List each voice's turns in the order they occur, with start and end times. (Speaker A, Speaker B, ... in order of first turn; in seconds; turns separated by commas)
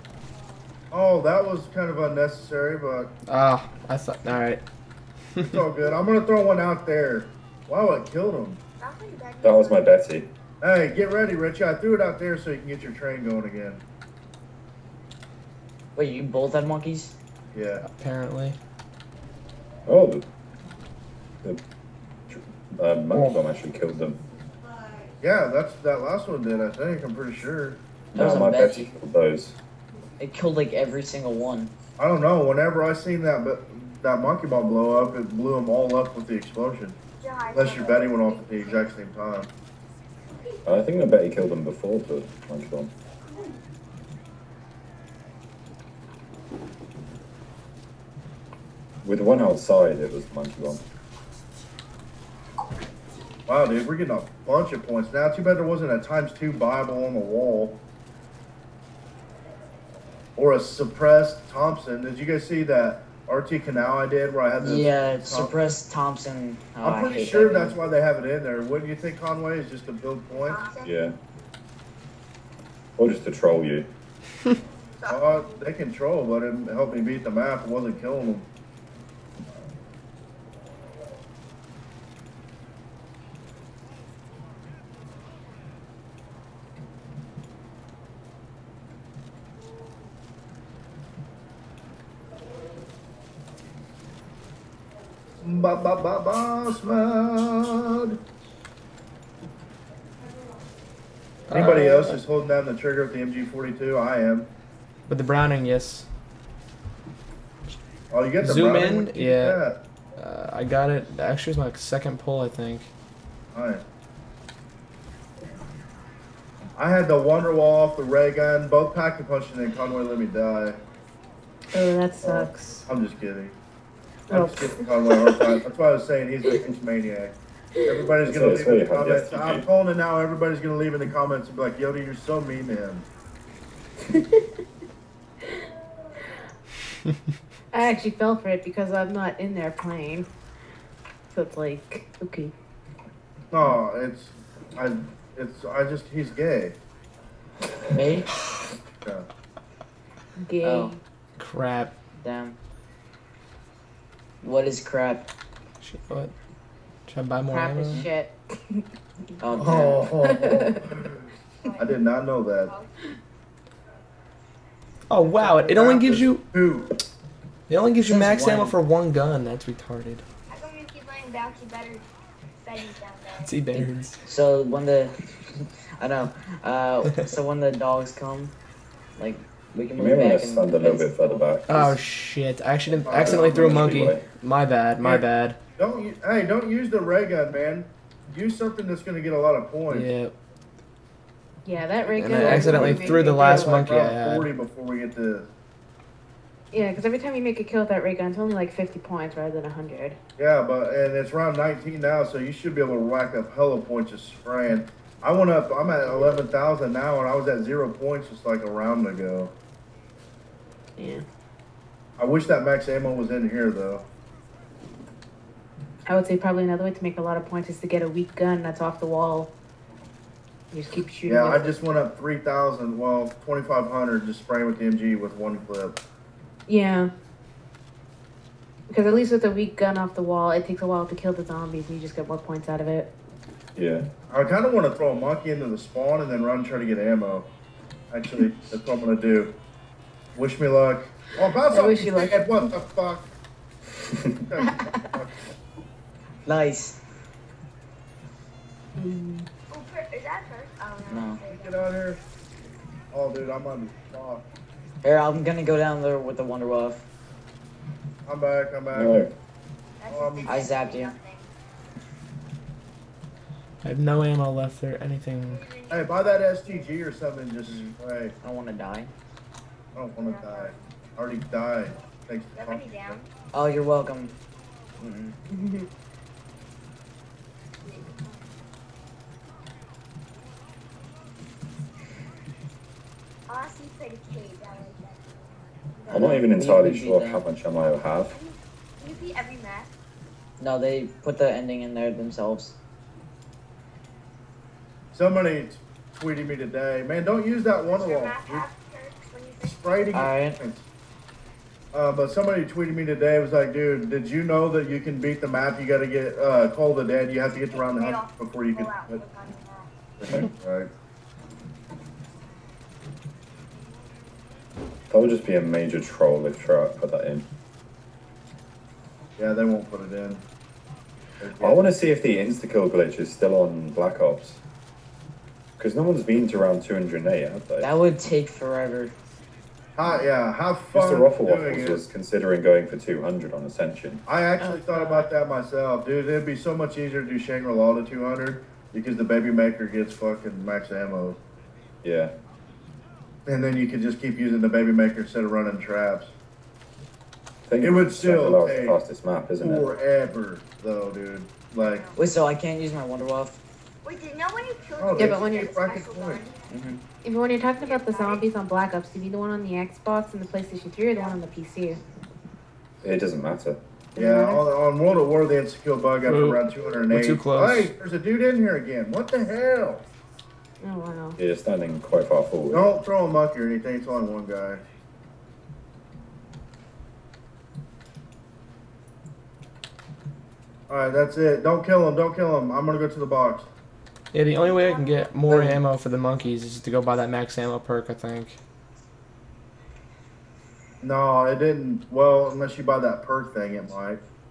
Speaker A: 0.9-3.1, Speaker B: 3.3-4.6, Speaker A: 5.4-8.6, Speaker C: 8.8-9.9, Speaker D: 9.4-10.3, Speaker A: 10.6-13.8, Speaker E: 15.9-17.1, Speaker A: 17.5-17.8, Speaker B: 17.8-18.6, Speaker D: 19.9-20.2, Speaker D: 22.3-24.2, Speaker A: 25.2-27.8, Speaker D: 28.1-29.6, Speaker E: 28.1-28.9, Speaker E: 30.2-31.7, Speaker A: 32.0-37.0, Speaker C: 37.2-39.0, Speaker A: 37.5-39.5, Speaker D: 40.6-42.9, Speaker D: 49.0-50.8, Speaker A: 53.5-57.8, Speaker A: 60.4-65.6, Speaker E: 64.6-67.8, Speaker A: 66.8-70.7, Speaker C: 70.3-70.9, Speaker D: 70.8-71.2, Speaker D: 73.0-73.9, Speaker C: 75.0-75.3, Speaker A: 75.1-78.5, Speaker A: 95.4-98.2, Speaker B: 101.5-102.2, Speaker A: 101.5-104.5, Speaker B: 105.1-106.1, Speaker A: 108.1-109.8, Speaker B: 108.4-109.6, Speaker B: 110.2-112.9, Speaker A: 113.5-113.8, Speaker A: 116.8-120.8, Speaker F: 121.7-122.8, Speaker D: 122.2-122.5, Speaker A: 122.9-123.5, Speaker F: 124.3-125.6, Speaker A: 124.3-127.3, Speaker A: 127.8-133.1, Speaker D: 128.2-129.7, Speaker F: 137.7-140.3, Speaker F: 141.3-142.5, Speaker A: 143.5-146.8, Speaker E: 147.9-148.3, Speaker F: 150.4-151.0, Speaker E: 150.6-150.9, Speaker B: 151.4-151.9, Speaker E: 152.2-152.6, Speaker E: 154.4-155.3, Speaker B: 155.8-156.3, Speaker B: 157.1-158.1, Speaker F: 157.4-158.8, Speaker E: 159.4-160.1, Speaker F: 159.6-160.9, Speaker A: 159.6-161.1, Speaker C: 161.6-163.0, Speaker A: 161.8-162.7, Speaker B: 165.1-166.4, Speaker A: 165.4-167.0, Speaker B: 167.7-170.2, Speaker E: 168.0-168.8, Speaker C: 170.5-172.0, Speaker C: 172.6-173.5, Speaker B: 173.4-174.2, Speaker E: 173.7-178.5, Speaker E: 179.2-181.4, Speaker D: 180.0-182.0, Speaker B: 181.7-185.6, Speaker A: 182.9-184.0, Speaker D: 183.1-184.2, Speaker A: 185.8-190.1, Speaker B: 189.9-190.3, Speaker F: 191.6-193.8, Speaker B: 192.1-194.5, Speaker A: 192.3-195.4, Speaker F: 196.7-200.2, Speaker A: 200.4-209.5, Speaker F: 211.0-211.2, Speaker A: 212.2-214.0, Speaker F: 216.1-219.5, Speaker F: 220.7-221.7, Speaker A: 221.2-226.0, Speaker F: 226.7-227.1, Speaker F: 228.9-233.1, Speaker D: 233.8-234.1, Speaker A: 234.3-237.5, Speaker A: 238.1-239.5, Speaker A: 240.3-243.3, Speaker F: 241.7-242.6, Speaker A: 244.3-245.4, Speaker F: 244.6-245.0, Speaker E: 246.4-247.0, Speaker F: 249.0-249.5, Speaker C: 249.7-251.9, Speaker E: 251.1-251.4, Speaker A: 251.5-252.2, Speaker A: 253.1-254.4, Speaker E: 255.0-257.0, Speaker A: 258.2-259.2, Speaker D: 258.9-259.3, Speaker C: 260.0-261.5, Speaker A: 260.1-260.7, Speaker E: 260.4-261.1, Speaker B: 263.8-265.6, Speaker C: 265.4-266.9, Speaker A: 265.9-268.3, Speaker E: 267.6-269.1, Speaker A: 269.9-273.2, Speaker C: 270.1-270.8, Speaker C: 272.5-273.3, Speaker E: 273.5-274.3, Speaker E: 275.0-275.4, Speaker F: 275.5-275.9, Speaker C: 277.9-278.4, Speaker C: 283.5-286.4, Speaker E: 286.1-287.4, Speaker D: 286.1-288.4, Speaker C: 288.3-289.9, Speaker E: 290.6-292.8, Speaker A: 295.1-298.6, Speaker C: 297.8-300.2, Speaker A: 299.6-300.9, Speaker E: 300.1-300.6, Speaker A: 301.9-309.2, Speaker C: 307.6-309.9, Speaker A: 310.2-310.9, Speaker D: 315.1-317.5, Speaker A: 319.4-320.4, Speaker A: 321.4-321.8, Speaker D: 321.6-324.6, Speaker D: 325.8-327.9, Speaker E: 327.8-329.1, Speaker A: 329.9-332.0, Speaker D: 330.9-334.2, Speaker A: 334.2-341.4, Speaker F: 334.6-335.0, Speaker D: 342.0-342.3, Speaker A: 343.4-346.3, Speaker D: 347.7-349.9, Speaker A: 347.8-349.0, Speaker A: 349.6-352.1, Speaker C: 351.8-352.1, Speaker E: 352.1-353.6, Speaker C: 354.0-356.7, Speaker A: 355.0-356.4, Speaker F: 355.2-355.7, Speaker E: 356.7-357.0, Speaker F: 357.2-362.0, Speaker C: 357.6-358.5, Speaker C: 361.1-361.4, Speaker D: 363.0-363.8, Speaker F: 364.1-364.6, Speaker A: 364.1-370.1, Speaker B: 366.2-367.9, Speaker F: 370.8-371.4, Speaker D: 371.4-372.9, Speaker A: 372.7-374.8, Speaker A: 380.9-383.7, Speaker B: 384.3-388.6, Speaker C: 384.6-385.3, Speaker A: 385.5-385.8, Speaker A: 391.0-394.2